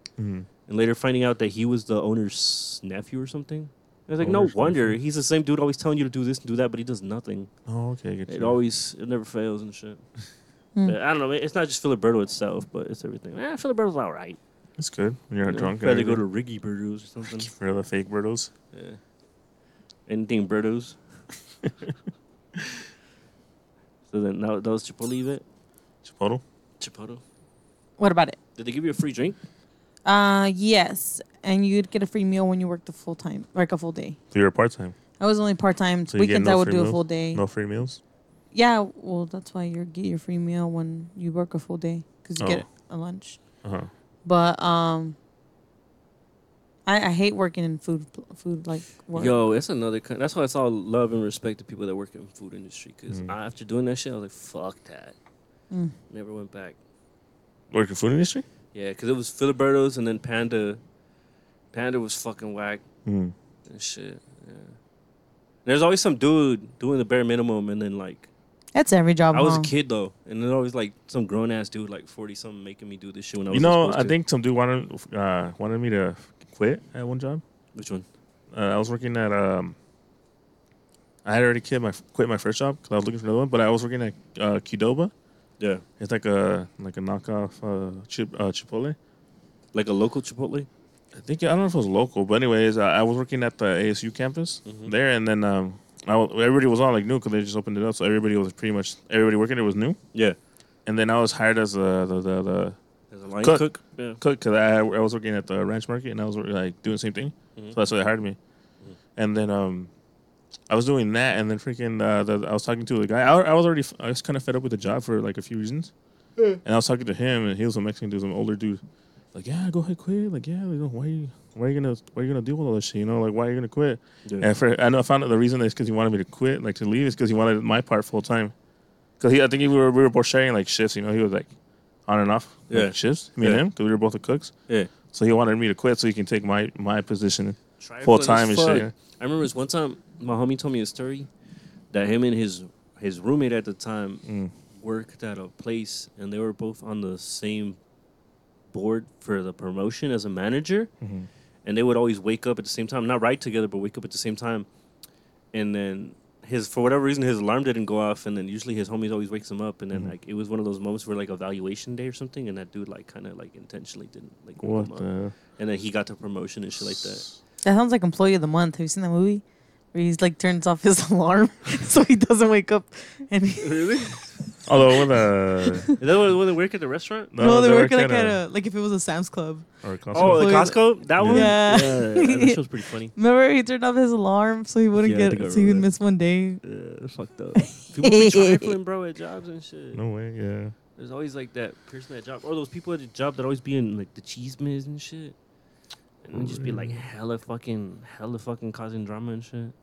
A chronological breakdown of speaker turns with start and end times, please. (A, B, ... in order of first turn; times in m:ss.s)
0:00.2-0:00.5 A
0:00.7-0:07.5 B
0:04.2-0:05.0 A
0:07.7-0:08.6 A
0:08.3-0:10.0 B
0:10.8-0:14.4 B
0:14.8-0:16.2 A
0:15.4-0:17.5 B
0:17.2-0:18.5 A
0:18.7-0:19.0 B
0:20.1-0:21.0 B
0:22.6-0:22.8 A
0:24.1-0:25.4 B
0:26.0-0:26.4 A
0:26.8-0:27.2 B
0:28.0-0:28.4 C
0:28.6-0:29.4 B
0:30.0-0:34.2 C
0:34.3-0:35.0 A
0:35.2-0:37.4 C
0:36.1-0:38.0 A
0:38.5-0:43.4 C
0:42.4-0:42.6 A
0:43.6-0:43.9 A
0:44.2-0:45.2 C
0:46.9-0:49.4 C
0:49.2-0:55.2 B
0:56.1-0:56.8 B
0:57.7-0:58.4 A
0:58.7-1:00.8 B
1:01.7-1:02.8 B
1:03.0-1:03.3 A
1:03.7-1:04.8 B
1:05.6-1:08.3 B
1:08.8-1:09.7 C
1:09.3-1:14.2 B
1:13.5-1:17.4 A
1:17.8-1:18.1 B
1:18.5-1:19.8 A
1:21.2-1:25.1 A
1:26.0-1:29.0 A
1:29.7-1:30.7 B
1:31.2-1:40.0 A
1:34.6-1:34.9 B
1:40.9-1:42.8 A
1:43.1-1:44.2 B
1:43.4-1:48.4 A
1:49.2-1:49.9 A
1:50.7-1:55.9 A
1:56.6-1:58.8 A
1:59.3-2:08.5 A
2:09.2-2:11.5 A
2:12.1-2:14.5 A
2:12.7-2:13.6 B
2:15.1-2:18.9 A
2:17.8-2:21.3 B
2:21.9-2:24.2 B
2:24.3-2:24.5 A
2:24.8-2:27.8 B
2:28.7-2:30.9 B
2:31.0-2:31.3 A
2:31.6-2:34.7 B
2:35.5-2:45.1 B
2:44.6-2:45.4 A
2:45.6-2:47.2 B
2:47.6-2:54.1 C
2:53.6-2:54.3 B
2:54.7-2:55.9 A
2:55.6-2:56.0 C
2:56.0-2:57.3 B
2:57.3-2:58.4 A
2:57.4-3:02.6 C
2:59.8-3:01.6 A
3:00.1-3:03.1 B
3:03.2-3:06.6 C
3:05.0-3:05.9 B
3:06.6-3:10.0 B
3:07.6-3:08.7 C
3:09.9-3:10.7 A
3:11.0-3:15.4 B
3:16.2-3:19.7 B
3:16.3-3:17.0 A